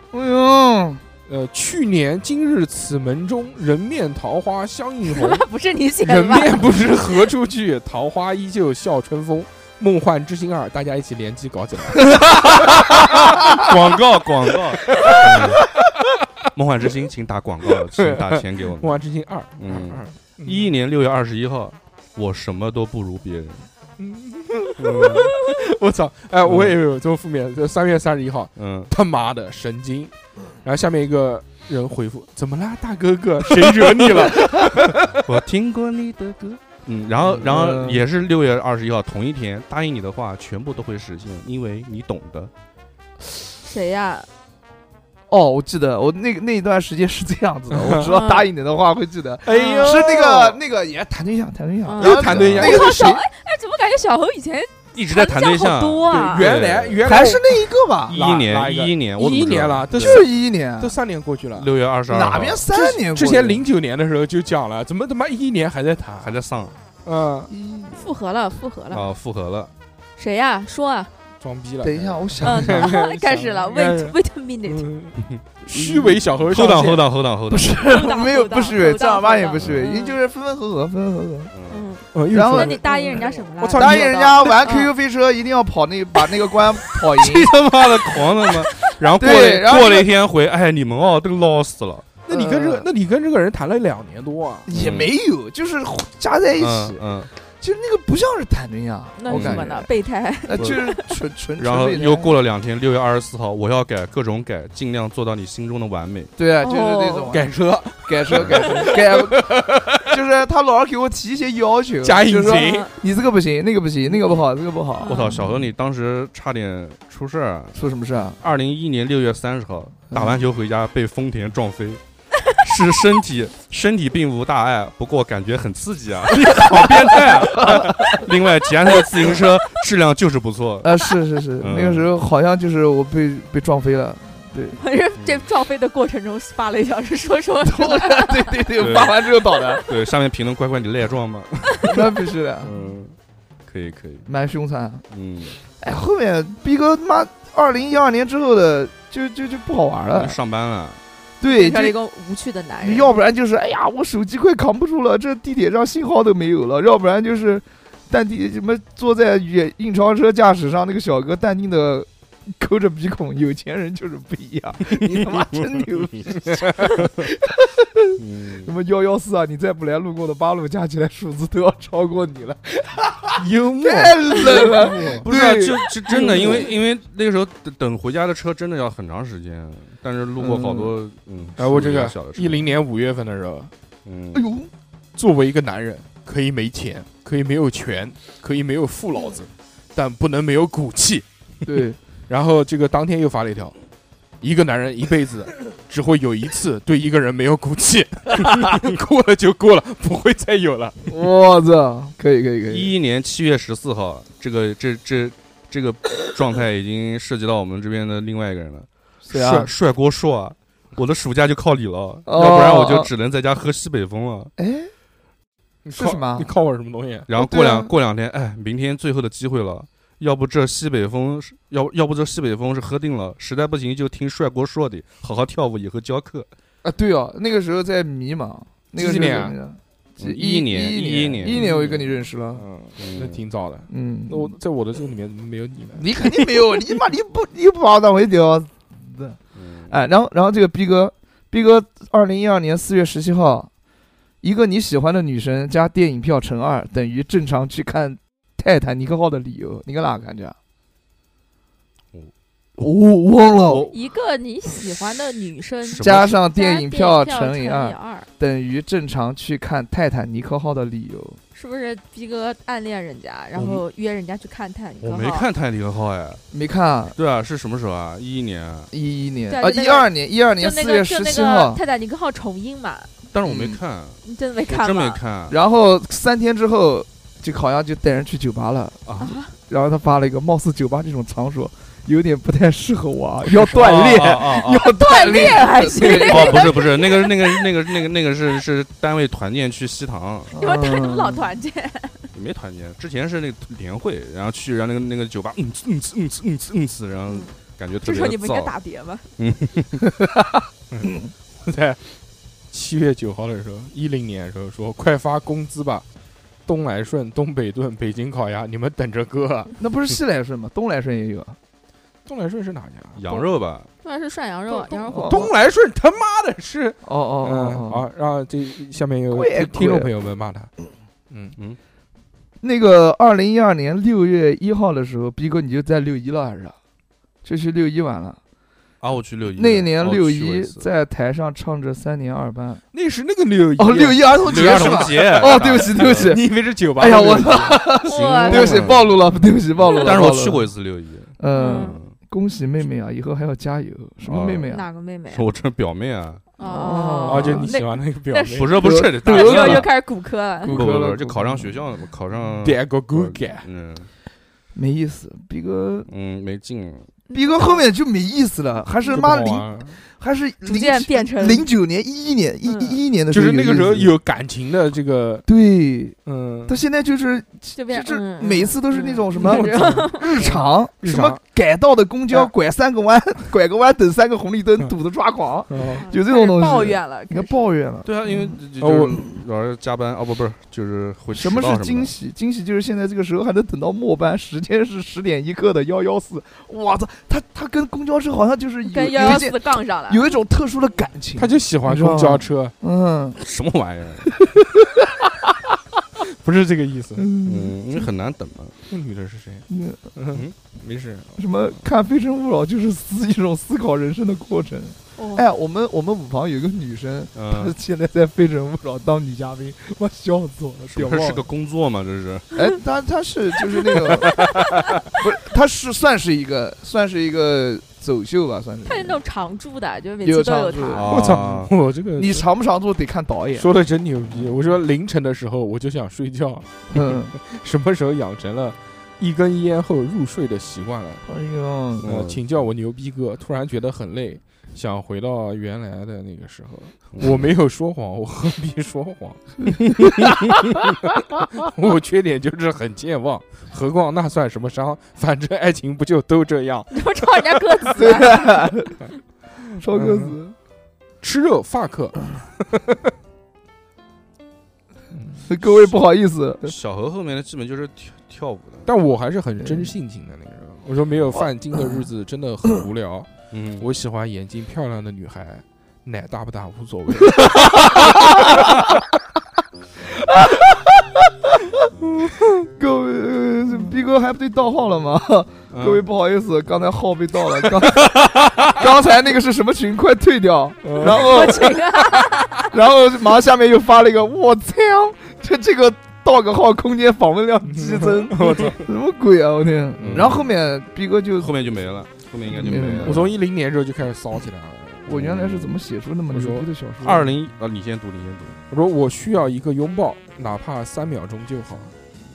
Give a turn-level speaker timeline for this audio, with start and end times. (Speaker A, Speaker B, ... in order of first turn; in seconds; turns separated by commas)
Speaker A: 0.1-1.0, Speaker B: 1.3-5.5, Speaker C: 5.0-7.3, Speaker B: 6.0-13.6, Speaker D: 12.1-15.6, Speaker B: 14.9-15.6, Speaker D: 16.5-18.9, Speaker B: 17.9-20.7, Speaker D: 19.6-23.7, Speaker B: 24.0-30.1, Speaker D: 24.8-25.3, Speaker D: 26.4-26.8, Speaker D: 28.6-28.9, Speaker B: 30.6-35.2, Speaker D: 33.8-42.5, Speaker A: 37.3-38.0, Speaker C: 43.6-44.3, Speaker A: 45.3-53.2, Speaker B: 47.7-48.1, Speaker C: 48.0-48.5, Speaker B: 49.4-50.6, Speaker C: 49.5-50.0, Speaker C: 51.9-56.5, Speaker B: 52.0-53.2, Speaker D: 54.9-57.0, Speaker B: 56.1-61.7, Speaker A: 57.0-58.2, Speaker D: 58.1-60.2, Speaker A: 60.0-60.9, Speaker D: 61.5-62.6, Speaker A: 62.1-63.6, Speaker B: 62.7-66.3, Speaker D: 66.2-66.7, Speaker B: 67.0-67.5, Speaker A: 67.5-68.0, Speaker C: 67.9-69.0, Speaker D: 68.9-69.7, Speaker C: 70.2-71.1, Speaker B: 71.4-77.0, Speaker A: 71.8-72.9, Speaker C: 72.4-74.9, Speaker A: 75.7-76.2, Speaker D: 76.5-77.8, Speaker A: 77.5-81.5, Speaker C: 77.8-80.2, Speaker D: 79.6-79.8, Speaker D: 81.5-81.9, Speaker C: 81.7-84.9, Speaker B: 82.1-84.2, Speaker A: 82.3-87.5, Speaker D: 87.2-92.1, Speaker A: 89.2-90.1, Speaker B: 92.2-94.7, Speaker A: 92.3-92.9, Speaker A: 94.7-99.9, Speaker D: 94.7-95.1, Speaker D: 96.6-97.3, Speaker C: 99.2-101.0, Speaker D: 99.3-99.7, Speaker A: 100.4-102.3, Speaker D: 101.6-106.3, Speaker A: 106.4-115.4, Speaker C: 106.6-107.3, Speaker B: 107.3-110.1, Speaker D: 108.3-108.6, Speaker B: 112.0-112.9, Speaker C: 112.5-112.9, Speaker C: 115.0-115.5, Speaker D: 115.0-117.8, Speaker A: 117.7-118.4, Speaker D: 118.4-122.0, Speaker A: 120.1-120.4, Speaker D: 122.5-130.9, Speaker A: 126.5-128.2, Speaker A: 130.8-134.8, Speaker D: 131.6-132.1, Speaker C: 134.8-138.6, Speaker D: 135.2-135.4, Speaker A: 137.6-139.8, Speaker D: 138.8-139.2, Speaker D: 139.8-142.0, Speaker A: 141.8-142.7, Speaker D: 142.6-143.1, Speaker D: 143.7-144.3, Speaker A: 144.2-145.0, Speaker D: 145.1-145.6, Speaker A: 145.7-150.3, Speaker D: 150.1-151.0, Speaker A: 151.4-152.0, Speaker C: 151.4-153.2, Speaker A: 152.8-176.7, Speaker D: 168.2-168.7, Speaker B: 173.4-176.7, Speaker D: 174.7-182.7, Speaker A: 180.4-180.9, Speaker B: 181.6-183.7, Speaker D: 184.1-184.4, Speaker A: 184.3-184.7, Speaker B: 185.1-191.2, Speaker A: 191.6-192.0, Speaker B: 192.3-193.7, Speaker B: 194.4-200.9, Speaker A: 201.1-202.9, Speaker D: 202.7-214.5, Speaker A: 209.2-209.7, Speaker A: 212.2-213.1, Speaker A: 214.6-214.9, Speaker B: 215.8-217.3, Speaker A: 215.9-216.5, Speaker D: 217.3-226.5, Speaker A: 217.4-217.9, Speaker A: 226.8-232.6, Speaker B: 228.9-229.5, Speaker D: 230.2-231.7, Speaker B: 231.4-236.1, Speaker D: 233.0-233.4, Speaker A: 233.9-234.6, Speaker A: 235.9-243.7, Speaker D: 239.6-239.9, Speaker A: 244.4-250.5, Speaker A: 252.8-253.9, Speaker D: 253.6-254.0, Speaker C: 253.9-258.3, Speaker D: 255.8-256.4, Speaker A: 256.0-261.4, Speaker C: 261.5-265.4, Speaker D: 263.5-263.8, Speaker D: 265.0-266.4, Speaker A: 266.5-267.1, Speaker D: 267.1-268.9, Speaker A: 268.9-271.8, Speaker C: 269.5-270.1, Speaker C: 270.6-273.1, Speaker D: 273.3-275.6, Speaker A: 273.4-273.8, Speaker C: 274.2-275.2, Speaker A: 275.5-279.0, Speaker D: 279.1-279.4, Speaker C: 279.2-279.5, Speaker A: 279.7-286.8, Speaker D: 283.5-284.9, Speaker C: 284.9-287.7, Speaker D: 286.0-290.5, Speaker A: 290.5-291.5, Speaker C: 290.6-292.3, Speaker D: 292.3-298.8, Speaker C: 298.0-299.2, Speaker D: 299.4-300.0, Speaker A: 300.0-300.6, Speaker B: 300.9-302.0, Speaker B: 302.7-306.0, Speaker B: 306.6-309.7, Speaker A: 309.8-311.6, Speaker B: 312.2-313.2, Speaker D: 313.1-313.9, Speaker C: 314.0-315.5, Speaker A: 314.7-315.5, Speaker B: 315.2-320.7, Speaker A: 317.0-318.0, Speaker A: 319.3-320.1, Speaker A: 322.6-326.8, Speaker A: 327.4-328.4, Speaker D: 329.0-330.9, Speaker A: 329.6-332.8, Speaker B: 332.9-338.8, Speaker A: 333.8-336.4, Speaker D: 334.4-336.3, Speaker A: 337.0-340.7, Speaker C: 338.0-338.8, Speaker D: 338.4-339.1, Speaker D: 339.8-342.1, Speaker A: 341.4-344.8, Speaker C: 341.5-342.0, Speaker D: 344.2-344.7, Speaker C: 344.7-345.4, Speaker D: 345.3-346.4, Speaker C: 346.6-350.8, Speaker A: 346.6-347.7, Speaker B: 347.2-348.8, Speaker D: 348.5-349.9, Speaker A: 348.8-349.9, Speaker A: 350.6-351.8, Speaker D: 350.6-354.1, Speaker B: 352.6-353.7, Speaker A: 354.7-356.1, Speaker D: 356.1-357.1, Speaker C: 357.3-357.8, Speaker A: 357.3-364.1, Speaker B: 359.1-360.0, Speaker C: 360.6-361.6, Speaker C: 362.6-363.0, Speaker B: 363.3-365.5, Speaker A: 365.5-378.6, Speaker B: 366.2-366.8, Speaker C: 367.7-370.3, Speaker B: 369.4-371.4, Speaker B: 375.7-376.1, Speaker C: 375.9-377.5, Speaker D: 378.0-382.1, Speaker B: 378.8-379.2, Speaker A: 381.3-393.4, Speaker C: 388.9-390.3, Speaker B: 391.4-392.7, Speaker D: 393.4-394.3, Speaker B: 396.3-397.3, Speaker A: 397.2-397.7, Speaker D: 397.4-398.8, Speaker B: 398.9-401.4, Speaker A: 399.7-400.0, Speaker A: 401.4-411.4, Speaker C: 405.2-405.4, Speaker D: 407.3-407.7, Speaker D: 410.9-412.5, Speaker A: 412.5-414.4, Speaker B: 414.2-414.9, Speaker A: 415.1-419.2, Speaker C: 418.9-421.1, Speaker A: 420.2-421.6, Speaker D: 420.9-421.7, Speaker B: 421.1-422.5, Speaker A: 422.2-423.7, Speaker B: 423.6-431.2, Speaker A: 426.9-427.3, Speaker A: 431.2-432.1, Speaker D: 432.0-432.4, Speaker B: 432.0-439.4, Speaker A: 440.0-440.3, Speaker B: 441.5-447.6, Speaker C: 446.9-448.6, Speaker A: 447.9-448.9, Speaker A: 449.8-450.5, Speaker B: 449.9-450.4, Speaker B: 451.2-453.1, Speaker B: 455.1-455.5, Speaker A: 455.4-456.7, Speaker D: 456.6-458.9, Speaker B: 458.9-468.7, Speaker A: 459.6-459.9, Speaker D: 463.5-463.9, Speaker A: 467.4-468.9, Speaker A: 470.1-471.9, Speaker B: 472.2-472.7, Speaker A: 472.8-491.5, Speaker D: 475.7-476.0, Speaker B: 480.8-481.6, Speaker C: 481.0-482.7, Speaker B: 487.7-488.8, Speaker B: 490.0-490.4, Speaker D: 490.0-490.4, Speaker D: 491.4-493.3, Speaker A: 492.5-493.2, Speaker B: 493.0-495.3, Speaker A: 495.1-497.3, Speaker D: 495.1-495.7, Speaker B: 496.3-496.6, Speaker D: 497.0-498.6, Speaker B: 498.7-501.9